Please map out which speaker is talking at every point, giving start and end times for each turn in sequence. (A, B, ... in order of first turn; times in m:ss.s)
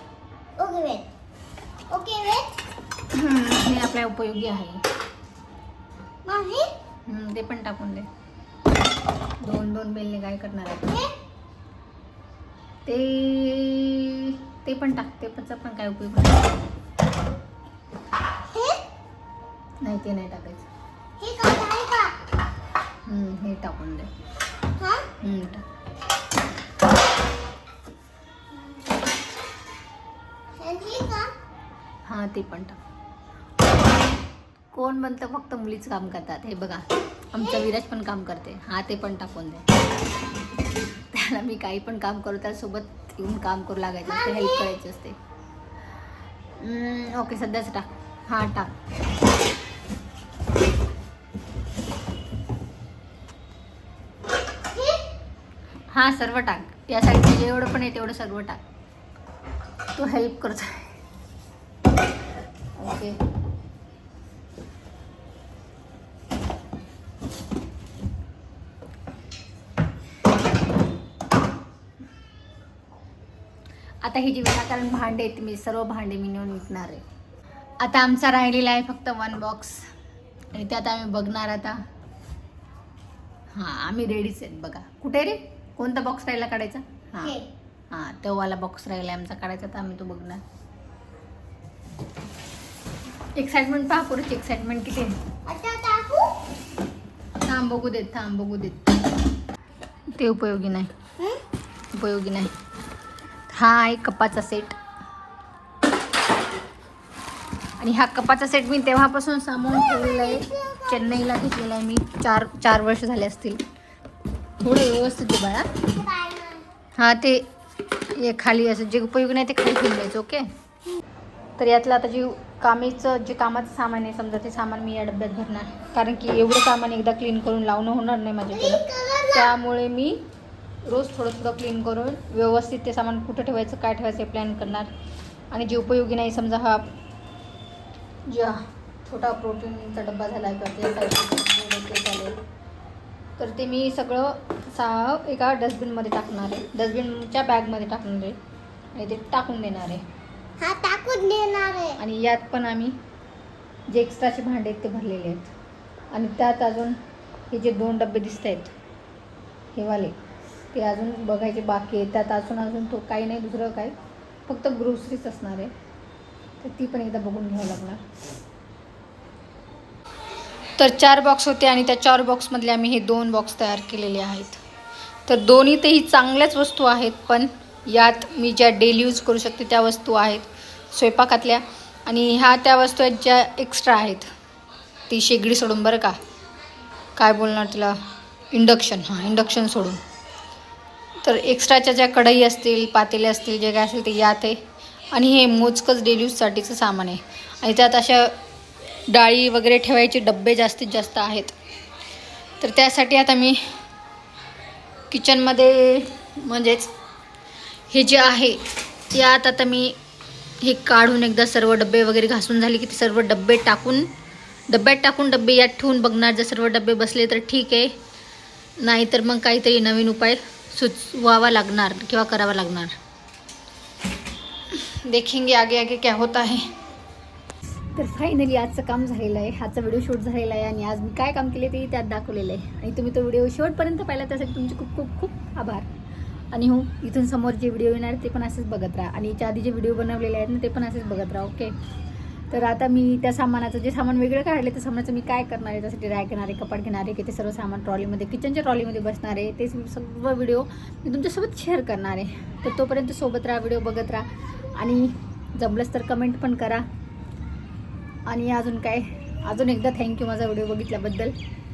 0:00.6-0:01.0 A
0:01.9-0:02.6 A
0:03.1-0:04.8 B
0:06.2-0:06.7 A
0:07.1-0:08.1 B
0:09.4-0:10.9 B
0:12.8-0:16.6 B
0:18.5-0:18.8 A
0:19.8-0:20.7 B
0:21.2-0:22.2 A
0:23.0-0:24.1 B
0:24.8-0:25.1 A
0:25.2-0:25.6 B
0:28.5-0:28.9 A
0:30.6-0:31.3 A
0:32.0-0:32.8 B
0:34.7-0:39.7 B
0:41.1-0:45.2 B
0:44.0-0:44.7 A
0:46.6-0:48.7 B
0:54.7-0:55.0 A
0:55.9-0:58.6 B
0:59.9-1:01.0 B
1:02.8-1:03.2 B
1:14.0-1:17.0 B
1:17.8-1:19.9 B
1:20.5-1:21.8 B
1:23.5-1:27.3 B
1:27.2-1:27.5 A
1:27.9-1:30.4 B
1:33.4-1:35.2 B
1:35.4-1:36.3 A
1:37.4-1:38.9 B
1:40.1-1:40.9 B
1:41.9-1:42.5 B
1:43.5-1:44.8 B
1:47.8-1:53.6 B
1:49.7-1:51.0 A
1:54.6-1:55.7 B
1:55.8-1:56.6 A
1:57.0-1:57.5 B
1:58.2-2:00.5 B
2:01.6-2:10.2 B
2:08.5-2:09.5 A
2:10.8-2:14.9 B
2:15.5-2:16.8 B
2:18.3-2:22.4 B
2:23.4-2:28.4 B
2:28.9-2:30.0 B
2:30.6-2:32.0 A
2:32.0-2:33.0 B
2:33.9-2:35.5 B
2:36.1-2:37.0 B
2:37.5-2:38.7 B
2:39.7-2:40.2 B
2:40.7-2:45.7 B
2:46.6-2:48.0 B
2:50.8-2:54.6 B
2:55.3-3:04.3 B
3:05.1-3:06.2 B
3:07.2-3:08.0 B
3:08.5-3:10.0 B
3:11.2-3:14.6 B
3:15.1-3:18.4 B
3:19.1-3:21.6 B
3:22.6-3:23.8 B
3:25.1-3:26.9 B
3:27.9-3:30.0 B
3:30.6-3:34.1 B
3:34.7-3:37.9 B
3:38.8-3:42.9 B
3:44.7-3:46.7 B
3:47.9-3:55.9 B
3:56.5-4:01.7 B
4:02.5-4:16.9 B
4:18.2-4:21.3 B